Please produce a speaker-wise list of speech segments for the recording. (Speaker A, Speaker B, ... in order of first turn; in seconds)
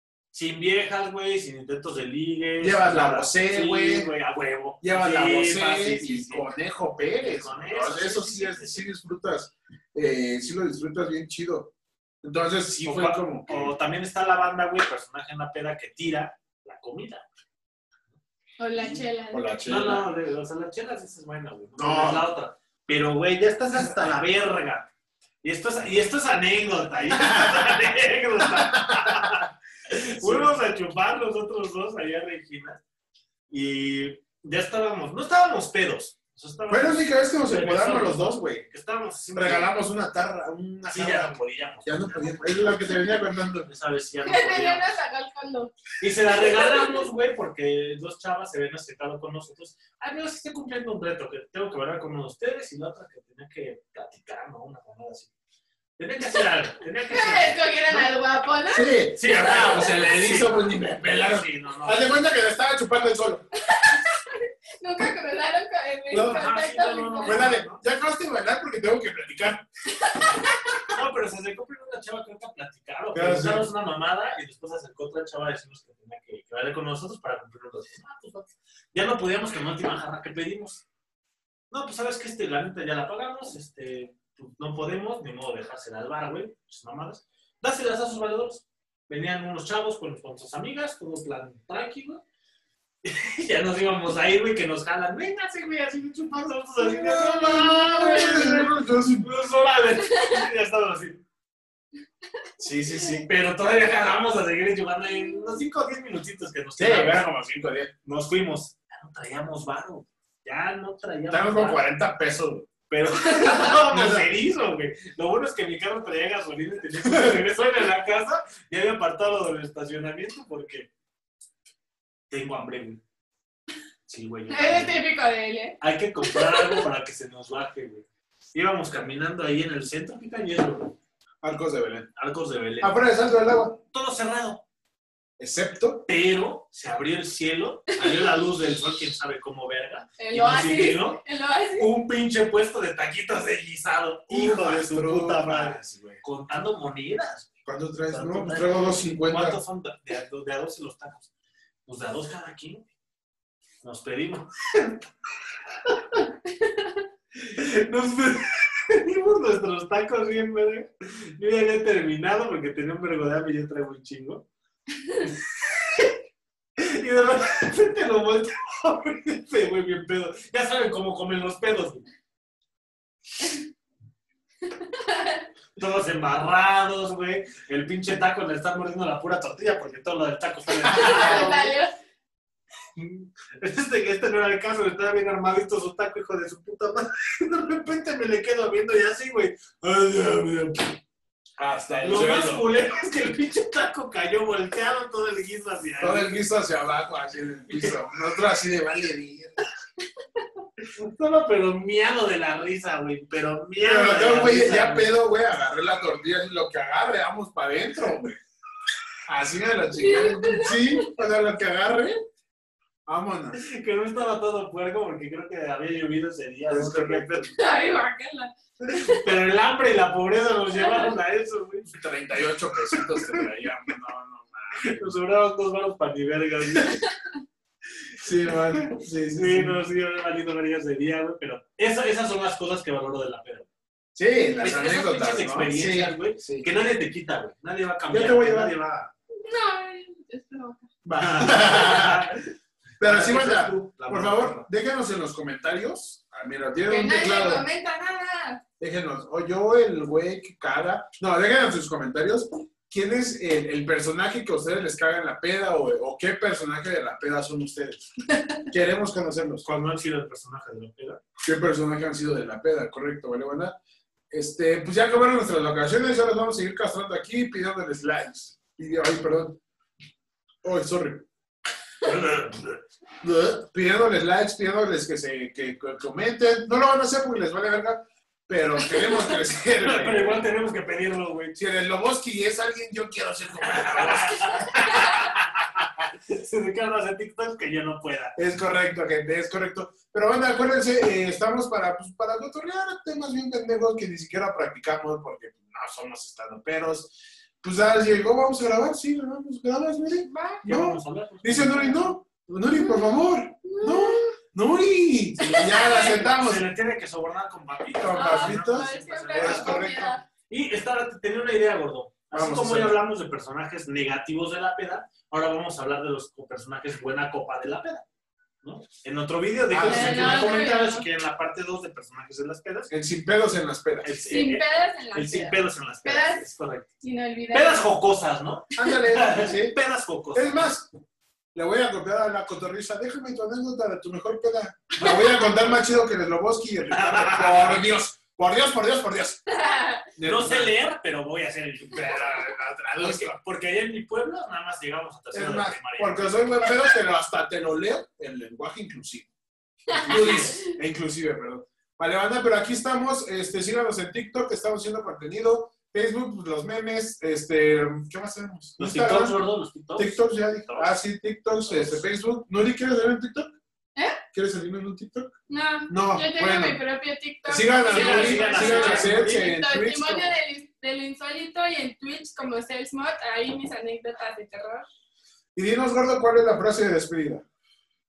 Speaker A: 0.3-6.5, 7.2-8.9, 12.8-17.3, 19.6-24.9, 25.4-32.8, 33.5-39.8, 40.9-43.0, 43.7-45.0, 46.0-55.3, 56.0-58.1, 59.1-62.1, 66.1-67.8, 70.9-80.8, 81.7-92.2, 93.0-101.2, 103.2-107.3, 108.0-111.8, 112.9-120.9, 122.3-123.0, 124.1-125.0, 125.8-131.0, 132.2-133.0, 133.9-134.6, 136.1-141.2, 141.8-147.5, 148.1-151.3, 151.9-152.9, 153.8-155.1, 155.8-156.2, 157.3-164.5, 165.2-166.2, 166.8-172.0, 175.8-181.8, 182.9-191.0, 192.0-196.4, 197.7-198.1, 200.8-205.2, 213.6-217.5, 219.0-221.9, 222.9-223.4, 224.8-227.0, 228.4-233.7, 234.6-239.1, 241.2-242.4, 243.0-244.7, 259.6-261.2, 272.0-272.8, 279.8-281.6, 283.6-288.4, 300.6-302.1, 305.6-309.8, 310.5-318.1, 318.6-322.9, 324.0-326.9, 327.5-330.7, 336.9-337.9, 340.2-346.6, 349.9-350.6, 358.8-360.9, 361.7-361.9, 367.9-369.5
Speaker B: 2.6-4.1, 4.8-11.7, 12.2-13.7, 19.3-20.1, 21.8-22.3, 27.2-27.8, 28.6-29.4, 30.2-30.5, 36.7-38.6, 39.3-43.7, 58.7-63.5, 66.1-66.6, 67.2-69.7, 73.1-73.7, 96.8-99.3, 102.6-103.3, 106.8-107.9, 111.3-112.7, 113.7-114.3, 131.4-132.1, 132.8-133.8, 135.4-136.1, 144.3-146.2, 147.7-149.6, 191.6-192.7, 196.0-199.6, 203.8-208.4, 209.3-212.2, 213.1-213.6, 216.7-217.5, 221.9-225.1, 228.2-229.8, 234.2-236.7, 238.1-238.7, 241.1-242.2, 243.0-247.7, 248.8-258.1, 258.7-259.6, 261.4-263.8, 264.3-269.6, 270.6-271.3, 273.2-280.4, 281.6-285.4, 288.4-306.6, 308.0-310.2, 312.3-313.0, 319.7-320.6, 322.9-324.3, 328.8-329.8, 330.3-330.9, 331.5-339.4, 340.2-340.8, 342.0-343.4, 345.3-349.3, 350.0-359.4, 360.0-363.5, 364.3-365.3, 365.9-366.8, 367.5-370.3, 375.6-377.4
Speaker C: 18.6-19.5, 44.2-45.8, 57.1-59.0, 63.6-67.5, 70.0-70.8, 98.0-98.4, 124.5-126.8, 140.2-141.9, 174.7-175.4, 180.9-181.9, 210.0-211.1, 217.6-219.3, 220.8-221.1, 239.3-240.9, 246.9-248.6, 300.1-300.6, 302.7-304.3, 305.4-306.3, 308.1-310.2, 319.8-321.1, 324.3-326.5, 327.0-327.9, 335.0-335.5, 339.5-340.1, 349.9-350.6, 365.5-374.9